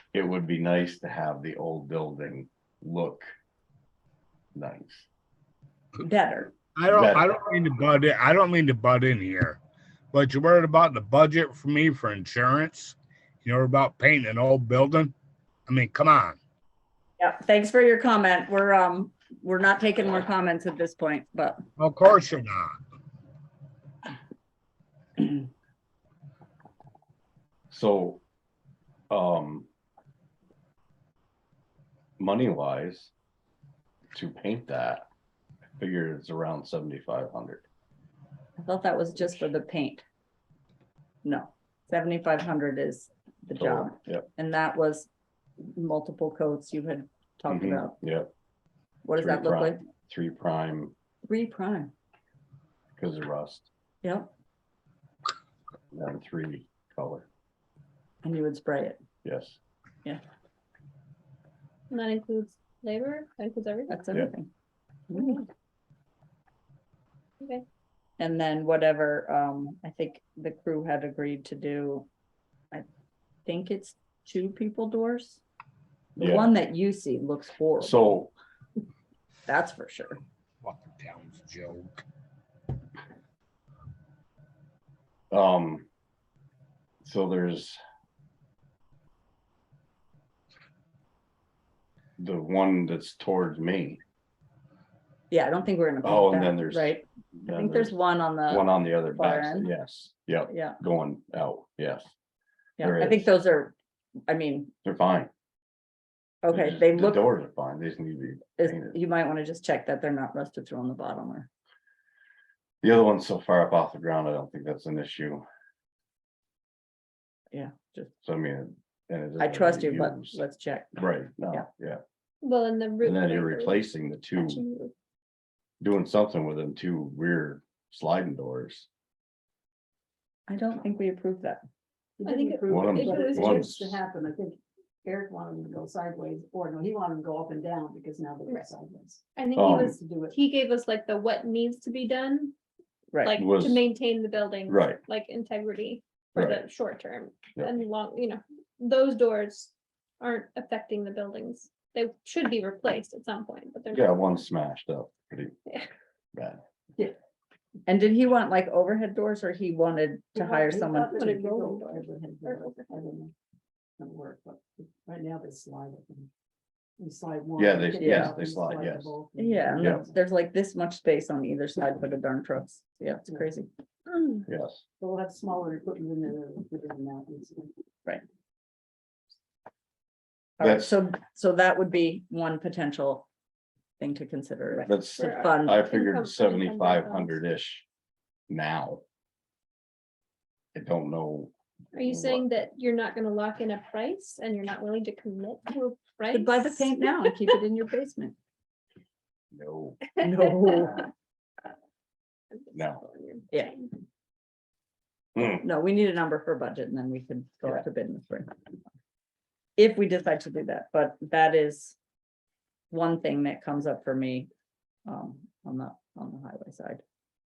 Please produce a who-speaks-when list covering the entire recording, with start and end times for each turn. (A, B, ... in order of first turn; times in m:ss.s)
0:00.1-0:03.3 A
0:04.5-0:05.1 A
0:06.0-0:06.5 B
0:06.8-0:09.6 C
0:06.9-0:07.3 A
0:10.1-0:15.1 C
0:15.7-0:16.4 C
0:17.2-0:21.6 B
0:21.8-0:22.8 C
0:27.7-0:28.2 A
0:29.1-0:29.7 A
0:32.2-0:33.1 A
0:34.1-0:35.1 A
0:35.8-0:37.6 A
0:38.6-0:40.0 B
0:41.2-0:45.1 B
0:43.6-0:44.3 A
0:45.6-0:47.9 B
0:47.5-0:48.3 A
0:49.0-0:49.8 B
0:49.2-0:50.9 A
0:51.2-0:51.9 B
0:53.0-0:53.7 A
0:54.0-0:54.3 B
0:55.9-0:57.3 A
0:58.2-0:59.0 B
0:59.2-0:59.6 A
1:01.9-1:04.0 D
1:03.9-1:04.5 B
1:05.1-1:05.4 B
1:05.1-1:05.5 D
1:08.2-1:12.1 B
1:13.4-1:15.4 B
1:16.2-1:16.5 A
1:16.2-1:18.0 B
1:17.8-1:18.3 A
1:19.5-1:20.2 B
1:20.6-1:22.0 C
1:25.3-1:25.9 A
1:27.0-1:27.8 A
1:32.2-1:34.0 A
1:35.3-1:39.7 B
1:36.0-1:38.0 A
1:38.5-1:42.1 A
1:40.5-1:40.8 B
1:42.8-1:43.7 B
1:42.8-1:43.3 A
1:44.3-1:44.7 B
1:44.8-1:45.3 A
1:46.4-1:47.3 B
1:46.5-1:49.0 A
1:48.6-1:51.5 B
1:52.8-1:55.4 A
1:57.5-1:58.1 B
1:58.2-2:00.4 A
1:59.4-2:01.7 B
2:01.0-2:02.0 A
2:02.4-2:03.8 D
2:03.0-2:04.6 A
2:04.4-2:04.9 D
2:05.8-2:08.9 A
2:10.5-2:11.6 B
2:12.2-2:20.4 E
2:12.2-2:13.8 D
2:12.7-2:14.0 A
2:19.4-2:22.5 D
2:19.6-2:19.9 A
2:23.1-2:23.4 B
2:23.2-2:34.2 D
2:23.4-2:23.8 A
2:24.7-2:25.0 A
2:26.4-2:26.6 A
2:33.9-2:35.5 A
2:36.3-2:36.6 A
2:37.9-2:41.4 B
2:40.4-2:43.3 E
2:41.0-2:43.0 D
2:44.0-2:46.3 E
2:47.0-2:50.1 E
2:47.6-2:49.1 A
2:48.0-2:48.4 B
2:49.4-2:54.4 B
2:49.8-2:50.0 A
2:54.5-2:54.8 A
2:55.0-2:57.7 E
3:00.6-3:03.3 B
3:00.6-3:01.0 A
3:04.0-3:05.8 B
3:04.8-3:07.8 A
3:05.2-3:07.4 D
3:08.5-3:09.0 A
3:10.7-3:11.5 A
3:11.9-3:17.5 D
3:12.0-3:12.5 A
3:16.3-3:18.4 B
3:19.5-3:20.1 A
3:20.2-3:20.9 D
3:20.2-3:21.1 B
3:22.5-3:23.9 D
3:22.7-3:23.0 A
3:25.4-3:25.6 A
3:25.6-3:28.6 B
3:29.8-3:32.0 B
3:32.9-3:34.5 B
3:35.0-3:37.0 B